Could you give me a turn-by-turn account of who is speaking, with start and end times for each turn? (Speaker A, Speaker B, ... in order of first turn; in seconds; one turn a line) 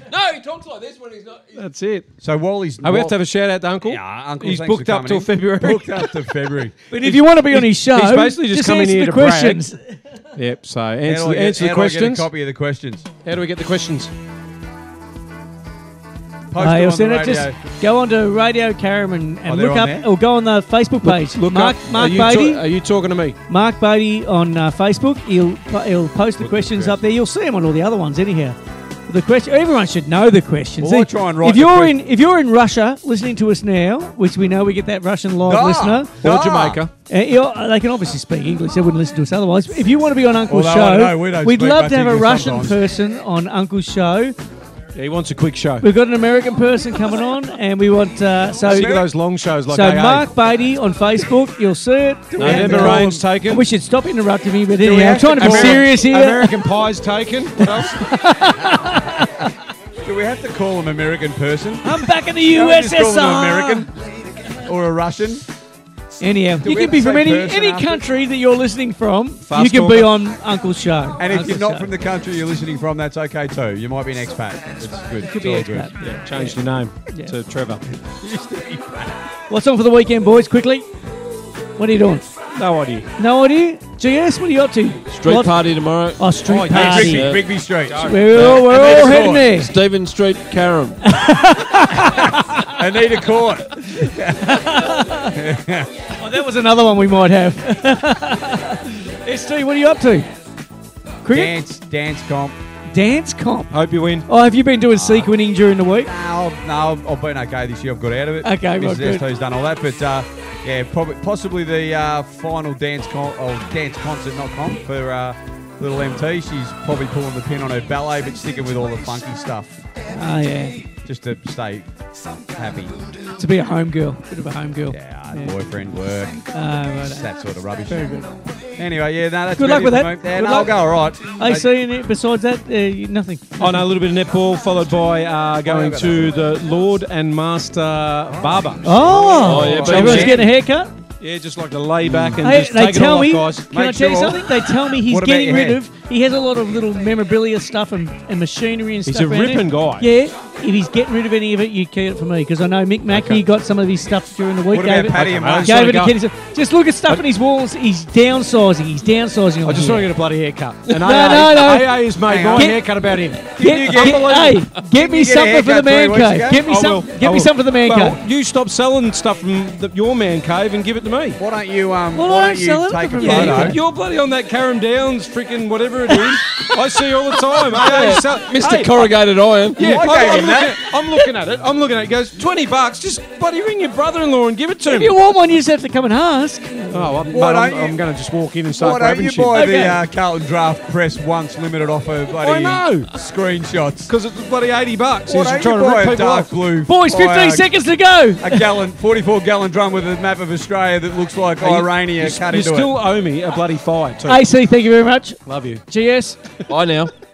Speaker A: 0.1-1.6
Speaker B: 1.5-2.1
Speaker C: 2.2-3.2
Speaker B: 2.8-6.3
Speaker C: 3.8-6.8
Speaker D: 6.9-10.0
Speaker B: 7.0-9.7
Speaker B: 10.3-12.3
Speaker C: 11.0-13.1
Speaker B: 13.2-14.1
Speaker C: 16.5-17.6
Speaker D: 16.6-22.7
Speaker C: 19.5-20.1
Speaker B: 21.0-23.4
Speaker D: 23.5-36.3
Speaker C: 26.4-27.0
Speaker C: 30.8-32.0
Speaker C: 35.4-36.8
Speaker B: 36.2-36.9
Speaker D: 37.1-44.4
Speaker C: 40.5-42.8
Speaker B: 45.0-45.9
Speaker D: 45.8-49.0
Speaker C: 48.7-49.1
Speaker B: 48.7-50.3
Speaker D: 49.7-56.6
Speaker C: 52.3-53.3
Speaker B: 52.4-53.6
Speaker C: 54.8-55.9
Speaker B: 55.3-58.1
Speaker D: 57.6-59.5
Speaker C: 58.6-58.9
Speaker C: 60.0-65.5
Speaker D: 61.8-63.9
Speaker D: 66.2-71.9
Speaker C: 66.6-68.0
Speaker B: 69.5-70.1
Speaker C: 71.2-75.9
Speaker D: 75.2-77.3
Speaker B: 76.0-77.8
Speaker C: 78.0-79.3
Speaker D: 79.5-80.9
Speaker D: 81.8-82.3
Speaker B: 82.5-83.1
Speaker D: 83.2-87.3
Speaker A: 85.1-86.3
Speaker B: 86.4-88.3
Speaker C: 86.7-89.5
Speaker A: 87.0-87.5
Speaker D: 88.0-89.7
Speaker A: 88.3-91.1
Speaker D: 91.0-92.7
Speaker C: 92.0-95.9
Speaker D: 93.9-95.4
Speaker D: 96.2-100.3
Speaker D: 101.2-101.5
Speaker C: 101.3-102.6
Speaker D: 102.9-106.1
Speaker B: 103.7-104.3
Speaker C: 104.9-105.3
Speaker C: 106.0-119.9
Speaker D: 108.4-109.3
Speaker D: 120.1-120.9
Speaker C: 120.9-123.1
Speaker D: 123.3-125.6
Speaker C: 124.9-126.5
Speaker D: 126.5-127.3
Speaker C: 127.0-128.2
Speaker D: 127.9-128.3
Speaker C: 128.7-131.7
Speaker D: 129.6-133.9
Speaker B: 133.6-140.5
Speaker C: 135.6-136.4
Speaker C: 138.3-140.5
Speaker D: 138.8-140.9
Speaker A: 139.4-140.4
Speaker B: 141.2-143.7
Speaker C: 142.1-142.3
Speaker A: 142.1-142.4
Speaker D: 142.4-160.1
Speaker C: 143.7-145.8
Speaker B: 149.1-150.1
Speaker B: 153.1-153.4
Speaker C: 154.7-156.1
Speaker B: 155.1-156.2
Speaker B: 159.6-164.6
Speaker D: 161.0-162.8
Speaker C: 162.2-162.8
Speaker D: 163.6-168.2
Speaker C: 163.6-166.7
Speaker B: 166.7-171.4
Speaker C: 171.4-173.8
Speaker D: 172.1-173.8
Speaker B: 173.2-179.2
Speaker A: 177.6-180.2
Speaker B: 179.8-185.1
Speaker C: 179.8-180.8
Speaker D: 184.9-187.2
Speaker B: 186.9-189.6
Speaker C: 187.3-188.0
Speaker C: 188.8-194.1
Speaker D: 189.5-190.0
Speaker B: 192.4-193.1
Speaker B: 194.1-196.5
Speaker C: 195.3-197.7
Speaker D: 196.9-198.7
Speaker C: 198.4-203.0
Speaker B: 201.6-204.5
Speaker D: 204.3-206.4
Speaker B: 205.5-205.8
Speaker A: 206.7-207.1